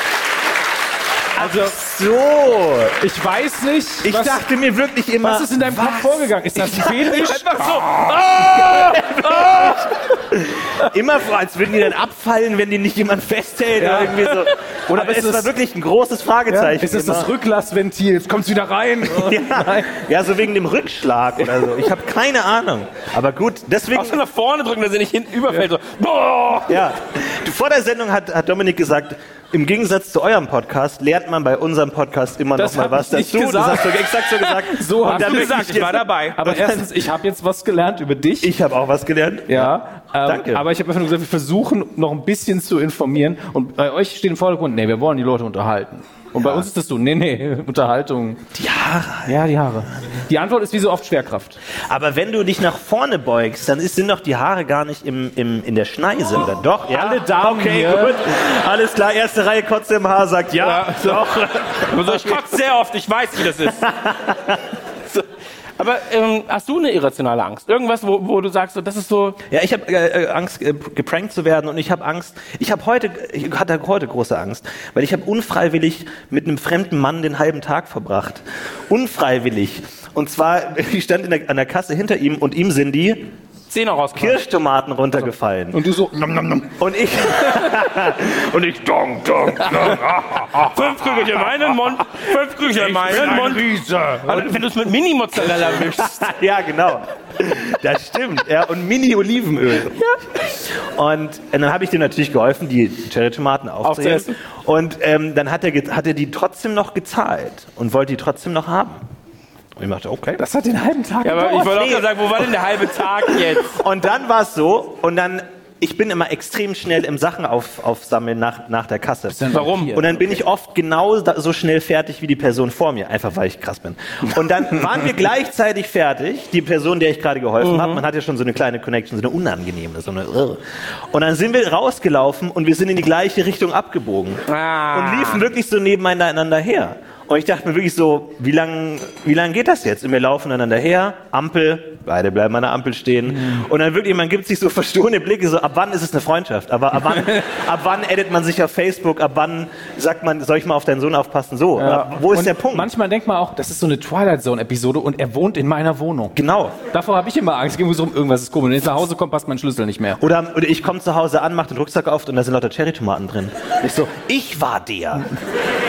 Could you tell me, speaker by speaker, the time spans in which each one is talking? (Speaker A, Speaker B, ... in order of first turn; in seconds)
Speaker A: 1.4-1.8, 3.0-4.5, 5.2-9.0, 13.8-15.5, 16.5-20.0, 32.5-38.5, 39.5-48.5, 49.3-51.6, 56.9-58.3, 85.2-86.8, 89.7-90.0, 92.9-94.4, 110.4-111.9, 119.3-120.4, 143.3-143.6, 151.8-156.4, 156.9-160.2
Speaker B: 1.4-3.0, 4.0-7.4, 8.0-17.3, 19.1-24.2, 26.7-36.9, 38.4-40.7, 46.4-46.7, 48.6-49.4, 51.9-62.5, 63.6-64.6, 69.5-83.3, 84.1-85.8, 86.8-91.4, 93.0-94.5, 95.7-109.0, 109.8-110.4, 111.7-112.5, 113.5-152.9, 156.3-156.8, 160.2-165.3
Speaker C: 7.2-8.2, 23.9-26.8, 35.0-36.6, 60.6-61.3, 61.8-63.9, 65.8-69.4, 83.7-84.4, 90.7-93.7, 94.2-96.3, 103.8-104.3, 111.2-113.8, 119.5-120.0, 127.6-128.0, 134.5-135.4